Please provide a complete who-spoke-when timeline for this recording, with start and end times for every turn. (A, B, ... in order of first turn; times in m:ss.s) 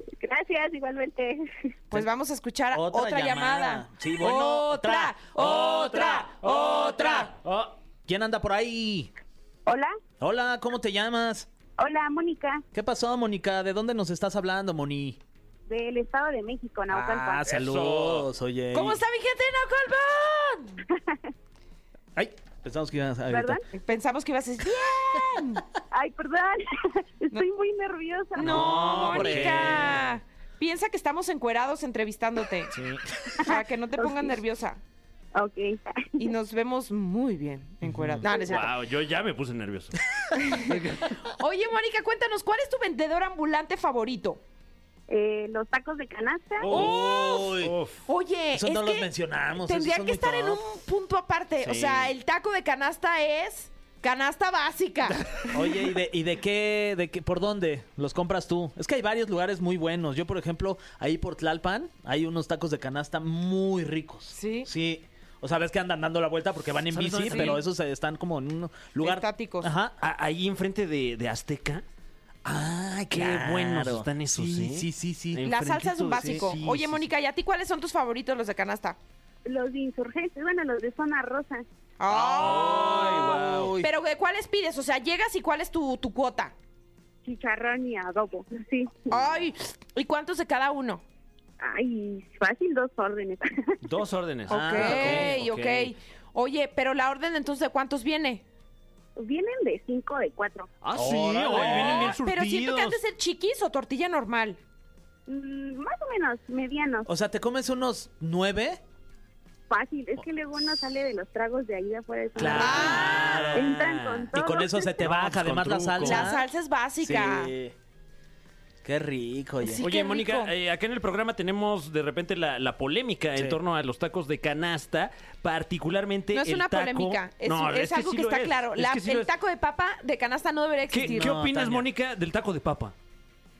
0:00.2-0:01.5 A
0:01.9-0:07.3 B
0:02.7-0:05.7 C
0:05.4-0:07.7 D
0:08.1-0:09.1 C
0:09.7-0:09.9 A
0:10.2-0:11.5 C
0:11.8-0:12.6 A
0:12.7-0:15.2 C
0:15.7-0:17.5 A
0:16.9-0:19.0 C
0:17.5-0:18.3 D
0:18.7-0:20.8 B
0:22.2-0:23.6 C
0:23.3-0:23.6 A
0:23.8-0:25.6 B
0:25.9-0:28.9 A
0:28.4-0:32.7 B
0:28.4-0:30.0 D
0:28.4-0:30.0 C
0:32.7-0:33.1 C
0:33.4-0:34.8 B
0:33.4-0:34.3 A
0:35.4-0:36.0 A
0:36.2-0:38.7 B
0:37.8-0:38.2 C
0:38.0-0:40.0 D
0:40.3-0:44.4 B
0:40.6-0:41.2 D
0:45.1-0:46.7 A
0:46.6-0:48.0 D
0:46.7-0:47.8 C
0:46.7-0:47.5 B
0:48.1-0:55.5 B
0:48.6-0:50.6 C
0:51.6-0:52.1 D
0:55.5-1:10.0 C
1:04.3-1:04.7 B
1:06.9-1:07.6 D
1:07.2-1:07.6 B
1:09.0-1:09.7 B
1:10.0-1:11.8 D
1:12.4-1:16.6 C
1:13.1-1:17.0 D
1:15.4-1:19.0 B
1:19.5-1:21.6 A
1:22.0-1:26.5 B
1:22.1-1:23.9 C
1:22.2-1:23.7 D
1:27.2-1:29.1 A
1:29.1-1:31.0 B
1:31.6-1:33.7 A
1:33.8-1:35.9 D
1:34.5-1:35.4 C
1:34.5-1:38.4 B
1:39.2-1:40.7 A
1:40.8-1:43.0 D
1:41.0-1:42.2 C
1:41.5-1:44.6 B
1:45.3-1:47.1 A
1:47.1-1:48.8 C
1:49.7-1:55.0 A
1:52.4-1:56.5 C
1:52.4-1:54.3 D
1:52.6-1:53.4 B
1:55.0-1:56.3 D
1:56.0-1:57.5 B
1:57.0-1:57.8 C
1:58.8-1:59.8 C
1:59.6-2:00.5 B
1:59.8-2:09.3 D
2:06.3-2:11.4 B
2:10.9-2:12.9 D
2:11.1-2:11.9 C